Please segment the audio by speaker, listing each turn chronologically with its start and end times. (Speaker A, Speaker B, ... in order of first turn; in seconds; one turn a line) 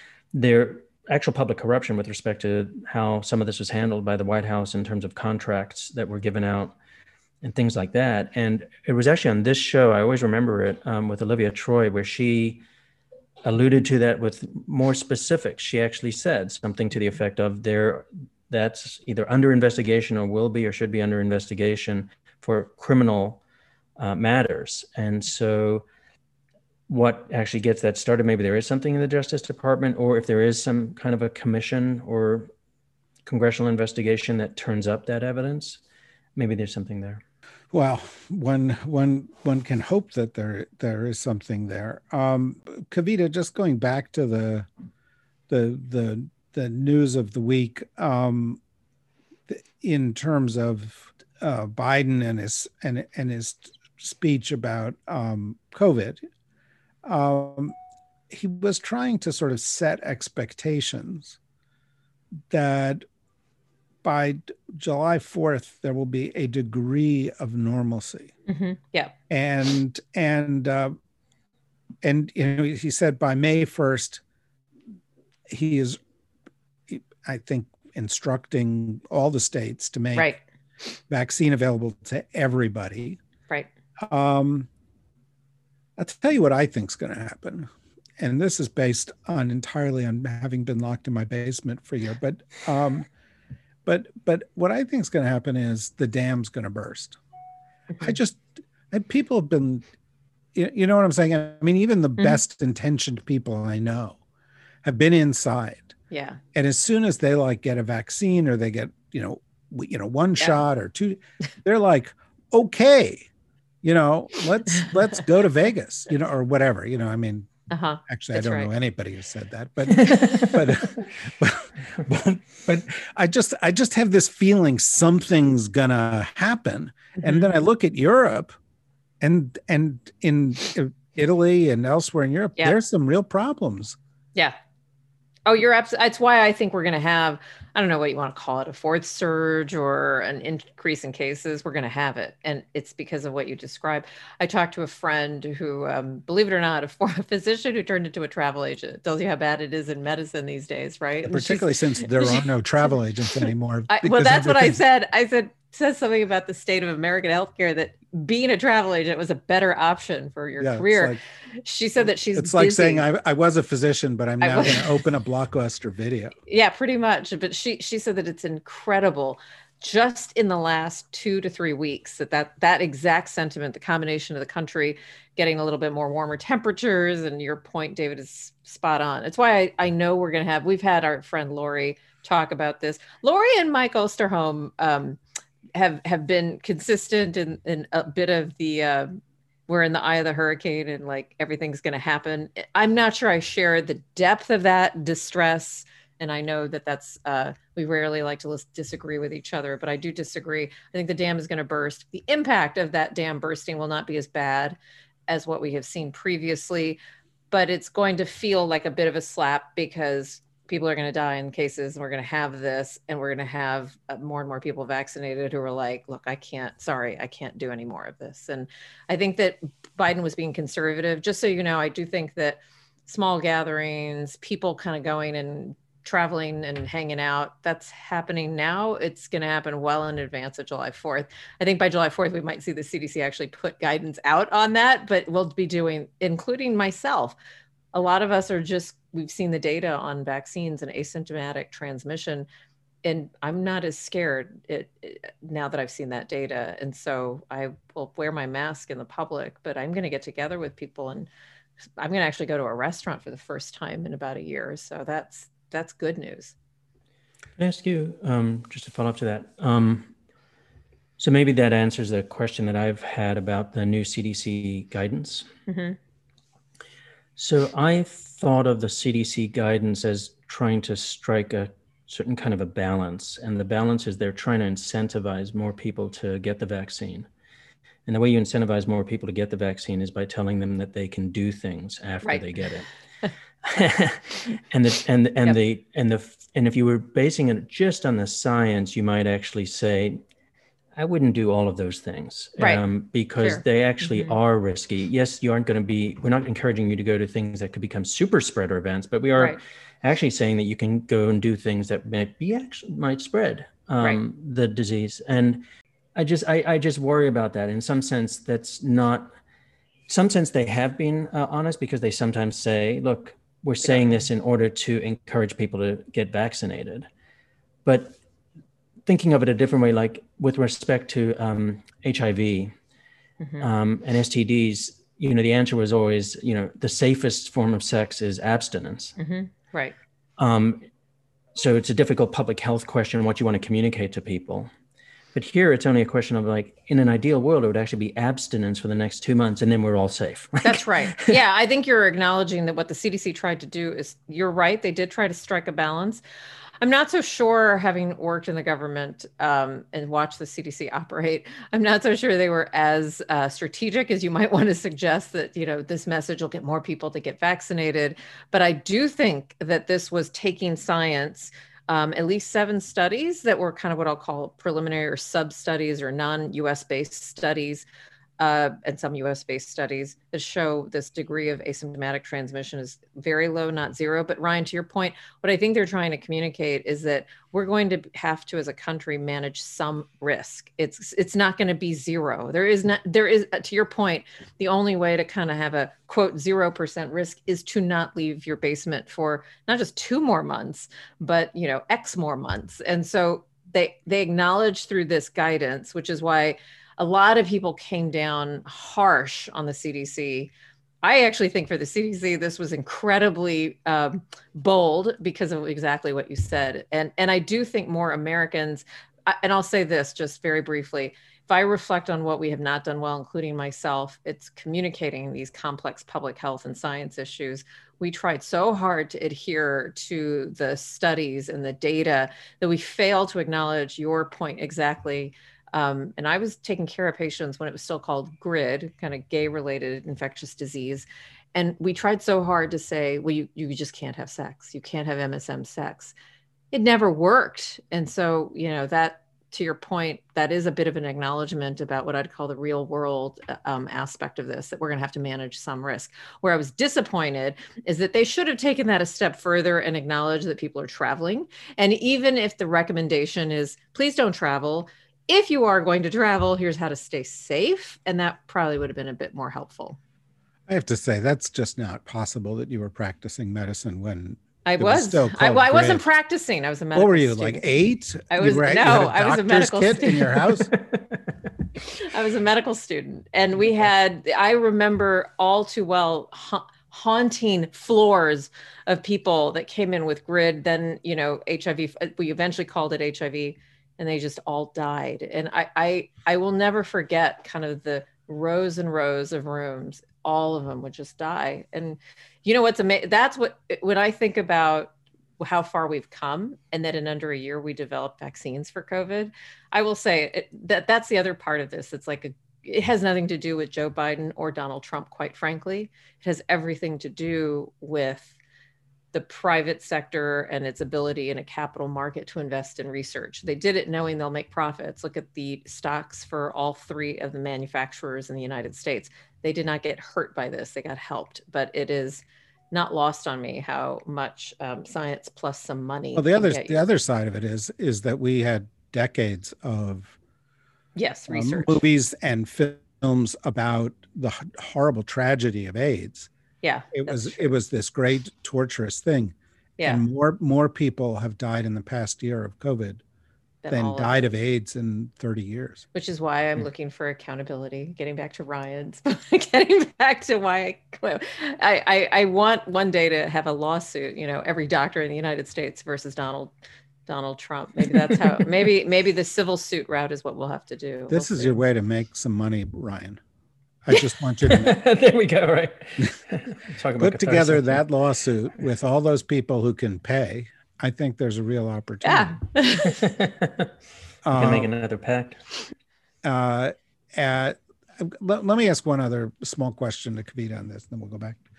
Speaker A: 0.3-6.7
Speaker A: 7.4-12.6
Speaker A: 13.4-23.4
Speaker A: 24.0-25.8
Speaker A: 26.9-32.5
Speaker A: 33.2-35.8
Speaker A: 36.4-37.2
Speaker B: 37.7-44.7
Speaker B: 45.5-48.6
Speaker B: 49.5-56.2
Speaker B: 57.0-57.7
Speaker B: 58.3-61.4
Speaker B: 62.5-63.0
Speaker B: 64.0-68.3
Speaker C: 68.5-69.1
Speaker B: 69.3-70.9
Speaker B: 72.0-74.2
Speaker B: 75.5-76.0
Speaker B: 76.9-80.3
Speaker C: 80.1-80.4
Speaker B: 81.1-83.2
Speaker B: 84.0-84.7
Speaker B: 86.0-93.1
Speaker B: 93.8-97.2
Speaker B: 98.0-99.8
Speaker B: 100.5-104.2
Speaker B: 104.8-105.9
Speaker C: 106.1-106.4
Speaker B: 106.5-113.3
Speaker B: 113.8-117.5
Speaker C: 117.7-118.7
Speaker B: 118.1-128.6
Speaker A: 120.0-120.5
Speaker C: 127.2-127.5
Speaker B: 129.2-134.0
Speaker C: 135.4-152.4
Speaker B: 151.2-154.8
Speaker C: 153.4-163.0
Speaker B: 160.6-161.2
Speaker B: 162.3-166.3
Speaker C: 164.4-164.9
Speaker C: 166.5-185.2
Speaker C: 185.7-189.2
Speaker C: 189.7-204.8
Speaker C: 205.3-207.0
Speaker C: 207.5-237.3
Speaker C: 237.9-242.5
Speaker C: 243.0-251.3
Speaker C: 252.0-256.5
Speaker A: 257.6-260.1
Speaker A: 261.2-265.5
Speaker C: 265.7-266.0
Speaker A: 267.4-277.3
Speaker A: 278.1-282.9
Speaker A: 283.6-290.2
Speaker A: 290.9-305.6
Speaker C: 293.4-294.4
Speaker A: 306.1-309.3
Speaker A: 310.1-317.1
Speaker C: 313.8-314.2
Speaker A: 317.8-318.2
Speaker A: 319.1-322.7
Speaker C: 323.4-323.7
Speaker A: 323.6-329.1
Speaker C: 329.2-329.9
Speaker A: 330.4-330.9
Speaker A: 331.5-334.7
Speaker A: 335.3-341.3
Speaker C: 340.6-346.2
Speaker C: 346.8-367.9
Speaker C: 368.4-400.5
Speaker C: 401.0-436.1
Speaker C: 436.7-460.0
Speaker B: 460.7-466.0
Speaker C: 464.6-467.6
Speaker B: 466.9-470.7
Speaker C: 468.3-470.5
Speaker C: 471.9-508.3
Speaker C: 509.1-526.8
Speaker B: 526.1-530.1
Speaker C: 531.0-531.8
Speaker B: 531.3-536.3
Speaker C: 536.6-537.5
Speaker B: 536.9-543.0
Speaker C: 539.8-540.0
Speaker C: 543.6-544.3
Speaker B: 543.7-545.8
Speaker C: 545.9-556.5
Speaker C: 557.1-561.6
Speaker B: 561.1-563.2
Speaker B: 563.8-564.8
Speaker A: 564.4-567.8
Speaker B: 567.0-572.4
Speaker C: 572.0-573.0
Speaker A: 572.9-573.7
Speaker B: 574.2-574.7
Speaker A: 574.3-575.4
Speaker B: 576.2-581.4